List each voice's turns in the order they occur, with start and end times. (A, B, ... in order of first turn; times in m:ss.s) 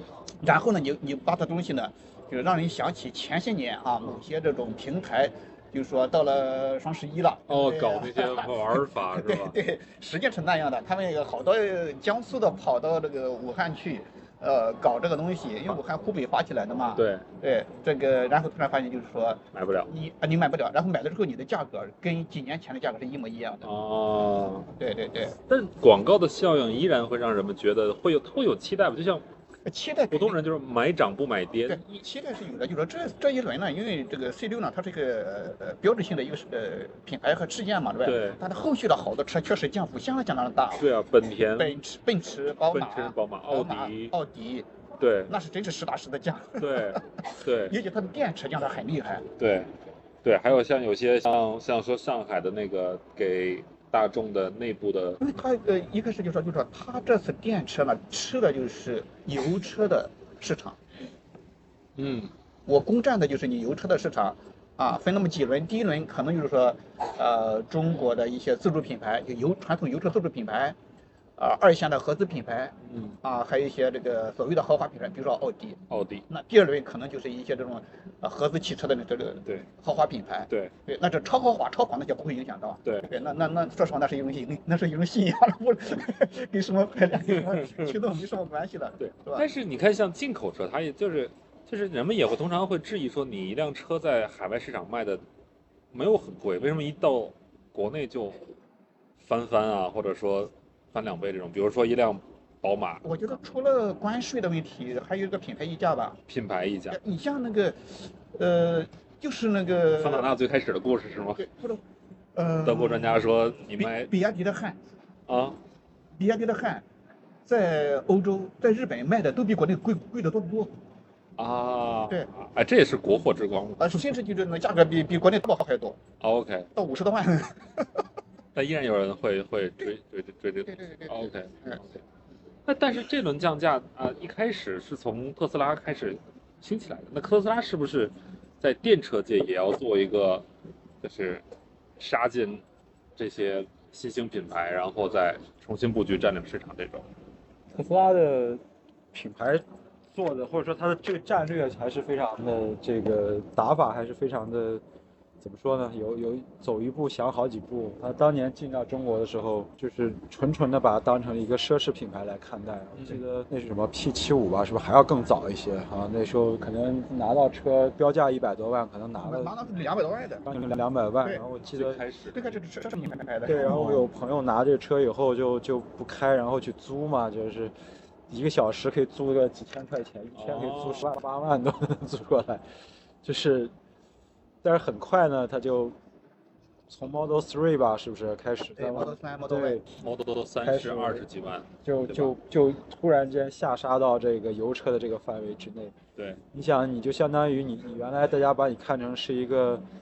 0:00.4-0:23.7 A
0:07.5-0:09.6 B
0:17.0-0:17.2 B
0:19.5-0:19.9 B
0:23.6-0:24.7 B
0:24.8-0:25.4 A
0:25.5-0:29.2 B
0:29.6-0:30.4 A
0:30.1-0:31.8 B
0:31.7-0:40.9 A
0:38.0-0:38.4 B
0:40.7-0:41.8 B
0:41.5-0:44.7 A
0:42.7-0:44.1 B
0:45.0-0:45.3 B
0:45.3-0:49.3 A
0:46.6-0:47.8 B
0:49.4-0:49.7 B
0:50.2-0:55.2 B
0:55.2-1:00.8 A
1:02.0-1:02.3 B
1:02.6-1:10.8 A
1:11.4-1:29.5 A
1:12.9-1:13.2 B
1:15.9-1:16.2 B
1:27.3-1:28.0 B
1:29.0-1:35.2 B
1:35.9-1:38.4 B
1:39.2-1:43.0 B
1:43.0-1:46.2 A
1:46.3-1:47.0 B
1:46.9-1:50.3 A
1:49.9-1:51.4 B
1:51.4-1:51.8 A
1:52.3-1:53.2 A
1:52.6-1:54.1 B
1:53.8-1:54.8 A
1:55.3-1:55.6 B
1:56.2-1:56.8 A
1:57.4-2:00.7 A
2:01.4-2:04.2 B
2:03.8-2:06.0 A
2:06.2-2:06.7 B
2:06.8-2:08.0 A
2:08.5-2:12.0 B
2:10.7-2:11.8 A
2:12.6-2:20.5 B
2:21.0-2:21.4 B
2:22.0-2:22.6 B
2:23.2-2:27.1 B
2:27.7-2:28.6 C
2:29.1-2:34.8 C
2:35.4-2:49.5 C
2:43.0-2:43.2 B
2:49.2-2:50.4 A
2:50.4-2:52.0 C
2:51.7-2:52.4 B
2:52.3-2:53.9 A
2:53.4-2:57.7 C
2:53.7-2:54.0 B
2:58.3-3:02.6 C
3:00.3-3:01.1 B
3:03.2-3:03.7 C
3:04.6-3:06.0 C
3:06.9-3:09.8 C
3:08.8-3:09.8 A
3:10.0-3:12.3 B
3:10.6-3:11.3 C
3:11.8-3:15.9 C
3:16.5-3:19.8 C